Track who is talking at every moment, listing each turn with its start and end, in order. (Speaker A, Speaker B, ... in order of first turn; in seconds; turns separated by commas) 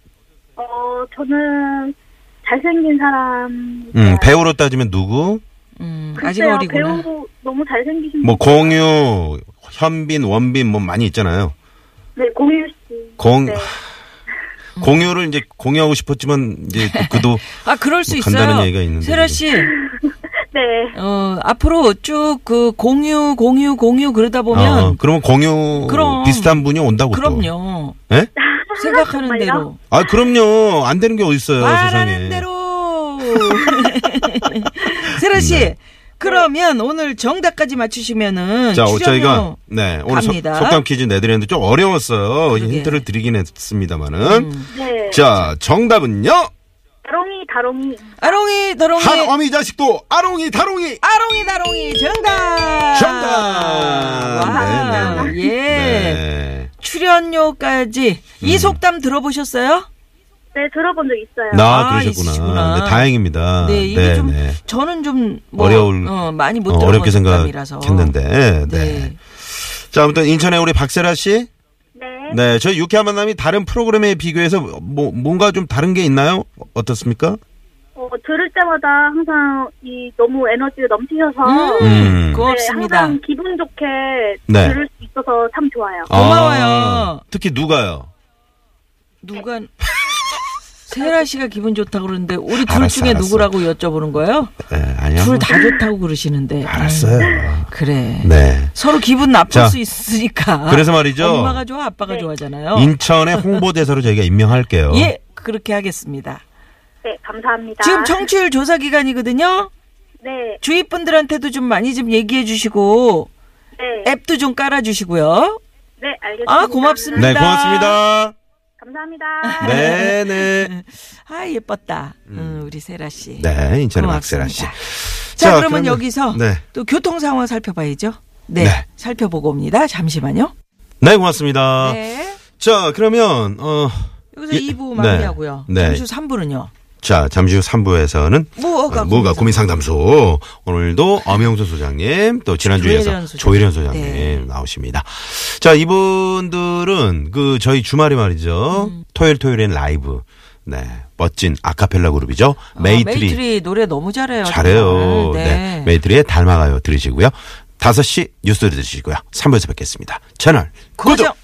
Speaker A: 0.6-4.3, Speaker B: 3.9-5.4, Speaker C: 5.8-7.1, Speaker A: 6.2-8.7, Speaker B: 8.2-11.5, Speaker A: 12.2-13.8, Speaker B: 13.2-13.8, Speaker C: 14.8-15.1, Speaker B: 14.8-19.4, Speaker C: 16.8-19.7, Speaker A: 19.5-20.9, Speaker C: 20.9-25.0, Speaker B: 24.5-27.5, Speaker C: 25.8-28.0, Speaker A: 28.4-29.7, Speaker C: 28.8-29.8, Speaker B: 29.9-32.5, Speaker C: 31.6-40.8, Speaker B: 35.3-35.7, Speaker B: 38.7-44.5, Speaker C: 42.5-43.1, Speaker C: 44.2-45.5, Speaker A: 44.7-45.2, Speaker B: 45.1-46.5, Speaker A: 47.0-48.4, Speaker C: 48.2-49.4, Speaker B: 49.0-51.0, Speaker C: 51.0-56.2, Speaker B: 52.9-56.7, Speaker A: 54.4-55.4, Speaker C: 56.8-59.9, Speaker B: 58.4-58.8, Speaker A: 60.5-61.7, Speaker B: 61.5-64.6, Speaker C: 61.6-68.1, Speaker B: 65.6-71.5, Speaker C: 68.7-69.2, Speaker A: 72.0-72.4, Speaker B: 72.3-77.4, Speaker A: 78.0-86.1, Speaker C: 81.4-83.2, Speaker B: 81.8-82.5, Speaker B: 84.5-84.8, Speaker C: 86.1-87.2, Speaker B: 86.1-88.1, Speaker C: 89.2-89.8, Speaker C: 90.9-94.5, Speaker B: 92.5-93.5, Speaker B: 94.7-95.8, Speaker C: 95.2-103.7, Speaker B: 96.6-97.7, Speaker B: 98.2-98.8, Speaker B: 99.5-99.8, Speaker B: 100.7-101.6, Speaker B: 102.7-105.1, Speaker C: 104.9-106.4, Speaker A: 107.0-108.3, Speaker C: 107.8-109.7, Speaker A: 110.2-110.6, Speaker C: 110.6-113.3, Speaker A: 113.8-114.1, Speaker C: 114.0-115.6, Speaker A: 116.0-117.4, Speaker C: 116.5-118.0, Speaker B: 117.2-118.3, Speaker A: 118.8-120.1, Speaker C: 119.4-130.5, Speaker B: 119.6-120.7, Speaker B: 122.3-122.7, Speaker B: 123.4-126.6, Speaker B: 128.6-128.8, Speaker B: 131.0-132.0, Speaker C: 131.8-132.4, Speaker B: 132.6-136.0, Speaker C: 134.3-136.7, Speaker B: 137.0-153.4, Speaker C: 138.6-139.7, Speaker C: 142.6-144.5, Speaker C: 148.7-149.0, Speaker C: 152.8-155.9, Speaker B: 154.4-161.3, Speaker C: 161.0-161.4